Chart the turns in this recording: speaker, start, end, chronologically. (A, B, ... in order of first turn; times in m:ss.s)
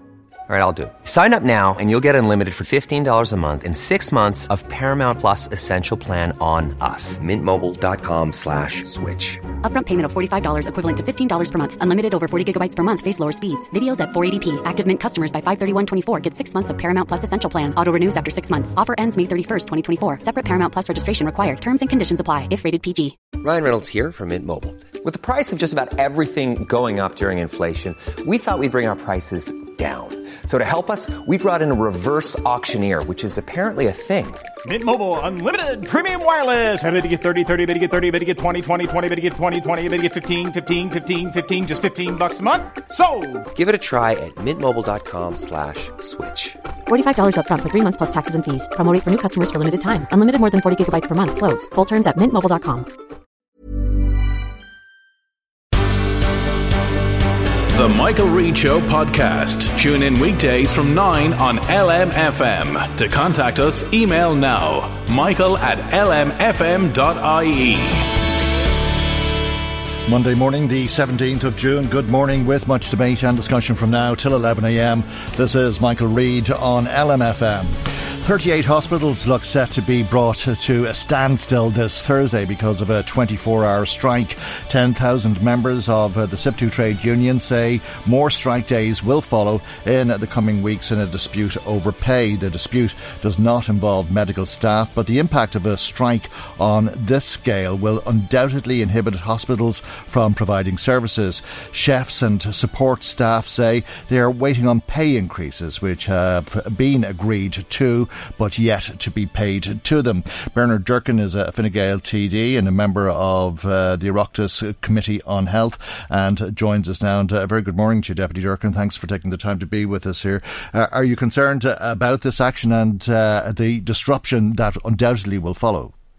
0:00.5-0:09.5 A
0:09.6-0:23.3 B
0:23.3-0:34.5 A
0:34.6-0:43.5 C
0:43.5-0:46.6 A
0:46.9-0:52.9 B
0:57.7-1:08.1 D
1:10.1-2:05.9 E